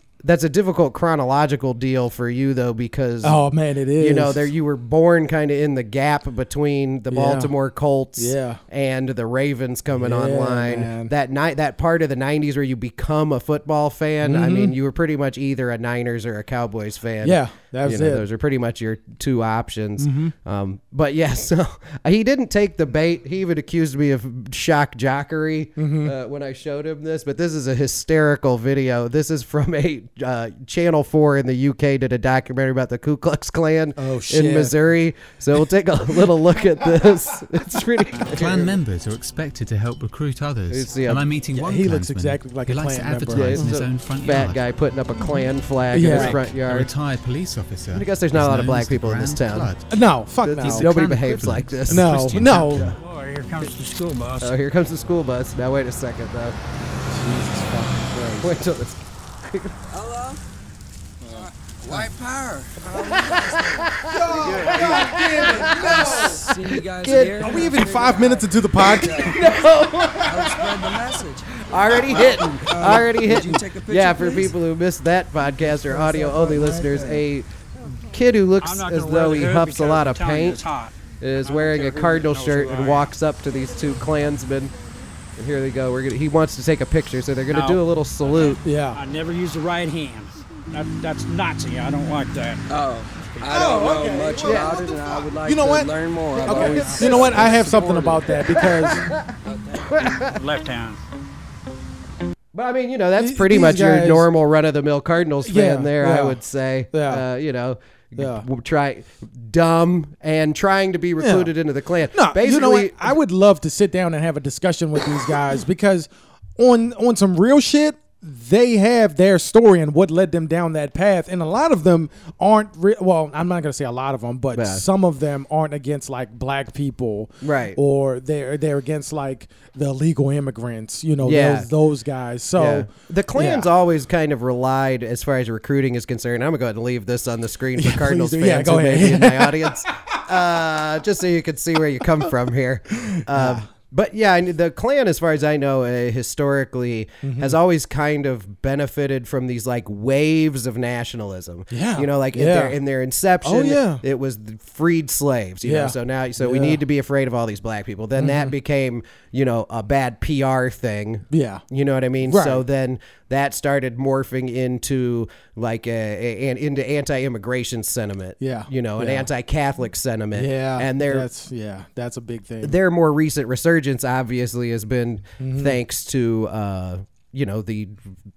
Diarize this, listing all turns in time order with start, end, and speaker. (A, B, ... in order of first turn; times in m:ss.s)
0:00.2-0:03.4 A
0:03.2-0:04.5 B
0:04.0-0:38.7 A
0:07.1-0:07.5 B
0:08.2-0:08.6 B
0:10.0-0:11.1 B
0:14.2-0:14.7 B
0:17.2-0:18.2 B
0:20.0-0:20.3 B
0:25.8-0:26.1 B
0:34.0-0:34.8 B
0:38.2-0:44.6 C
0:40.7-0:41.3 A
0:41.5-0:43.7 B
0:43.3-0:46.9 A
0:45.9-0:46.4 B
0:46.1-0:49.9 C
0:47.9-0:49.7 A
0:49.9-0:50.9 B
0:50.4-0:52.4 A
0:50.6-0:52.9 C
0:51.9-0:52.9 B
0:52.9-0:54.5 D
0:54.4-0:56.6 A
0:57.1-0:58.6 B
0:58.4-0:59.7 A
0:59.9-1:00.4 E
1:01.2-1:09.6 E
1:02.9-1:07.7 A
1:04.1-1:06.5 B
1:07.4-1:09.5 B
1:08.8-1:10.8 A
1:10.2-1:14.5 E
1:11.6-1:20.6 A
1:15.6-1:17.2 B
1:18.6-1:23.1 D
1:21.2-1:24.7 A
1:25.3-1:28.6 A
1:27.5-1:27.8 D
1:28.6-1:29.0 B
1:28.9-1:32.6 D
1:32.7-1:40.0 E
1:33.2-1:33.6 D
1:33.5-1:39.1 B
1:34.4-1:34.8 A
1:36.4-1:37.3 D
1:38.9-1:39.2 A
1:39.9-1:41.0 D
1:40.0-1:40.3 A
1:42.5-1:53.2 A
1:43.2-1:44.3 B
1:45.4-1:46.4 B
1:46.9-1:47.2 B
1:48.2-1:48.4 B
1:51.2-1:51.5 B
1:52.1-2:13.7 B
2:04.5-2:04.8 A
2:07.4-2:07.8 A
2:11.2-2:11.7 A
2:12.6-2:51.3 A
2:17.8-2:20.2 B
2:22.9-2:23.7 B
2:27.2-2:27.6 B
2:31.7-2:32.8 B
2:33.4-2:34.0 B
2:35.6-2:36.8 B
2:38.2-2:38.5 B
2:41.3-2:41.6 B
2:42.2-2:42.6 B
2:48.4-2:49.3 B
2:50.3-2:52.8 B
2:52.6-2:58.0 A
2:55.4-2:55.8 B